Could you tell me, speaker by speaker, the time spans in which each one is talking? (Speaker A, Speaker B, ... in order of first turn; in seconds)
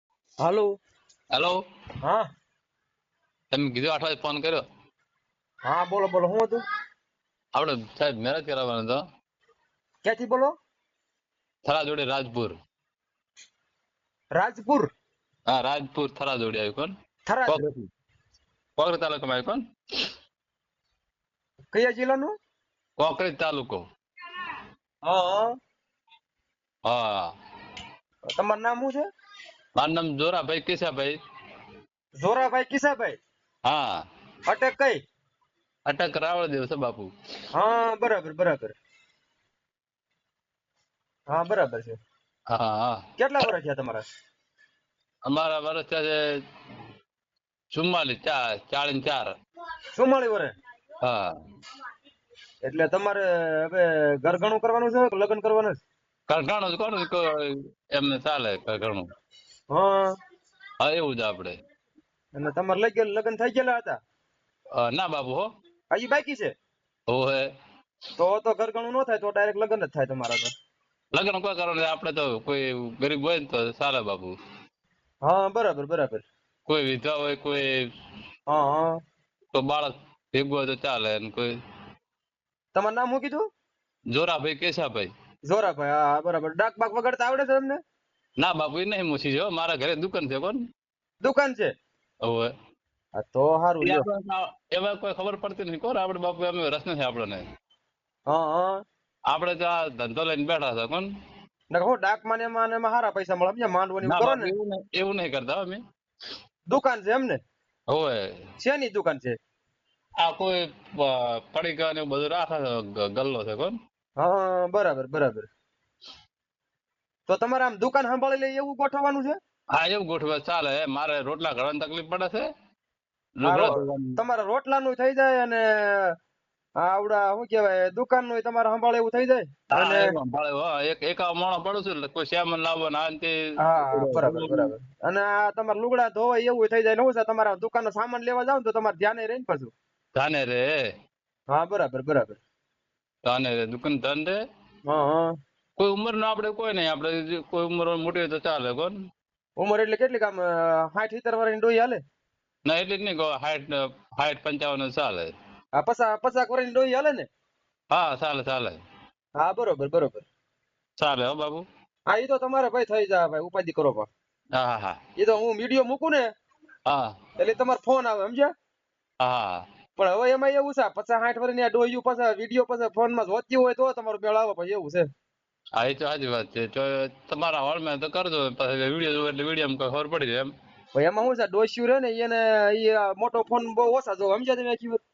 Speaker A: 0.4-0.8, 5.6-6.6, 10.0-10.5, 14.3-14.9, 17.3-17.6, 21.7-22.4, 25.0-25.6, 28.3-29.1, 32.2-33.2, 34.5-35.0, 37.5-38.7, 41.3-42.0, 43.2-44.0, 49.9-50.5, 52.6-55.8, 59.7-60.2, 62.3-64.0, 65.9-66.5, 68.2-70.5, 75.2-76.2, 78.5-79.0, 82.7-83.5, 85.4-87.8, 91.2-91.7, 93.2-94.1, 98.3-98.8, 101.7-104.5, 106.7-107.4, 108.6-109.4, 114.2-115.5, 117.3-119.4, 123.5-126.1, 126.8-130.1, 133.6-139.7, 141.5-142.4, 144.9-145.4, 149.6-152.0, 155.7-157.3, 159.4-160.3, 162.1-164.1, 165.2-166.3, 167.4-168.5, 170.0-175.1, 180.9-185.0
Speaker B: 1.3-1.6, 3.5-4.6, 7.5-9.0, 11.7-12.6, 15.5-16.9, 17.5-17.9, 18.8-19.6, 23.0-23.8, 26.9-27.3, 29.8-31.2, 33.7-34.0, 35.9-37.1, 42.5-43.0, 45.3-46.4, 47.7-49.3, 51.0-51.3, 56.3-59.0, 60.8-61.5, 64.8-65.5, 67.1-67.5, 71.1-74.3, 76.7-77.9, 79.5-81.5, 84.1-85.1, 88.4-90.6, 92.2-92.5, 93.8-97.4, 99.3-101.1, 104.0-105.8, 107.9-108.4, 110.2-113.8, 119.7-122.5, 123.4-124.2, 129.7-134.7, 140.2-140.7, 143.2-144.4, 145.8-149.0, 152.7-155.3, 157.9-158.8, 161.0-161.7, 164.6-165.0, 166.9-167.2, 169.2-169.7, 175.8-180.5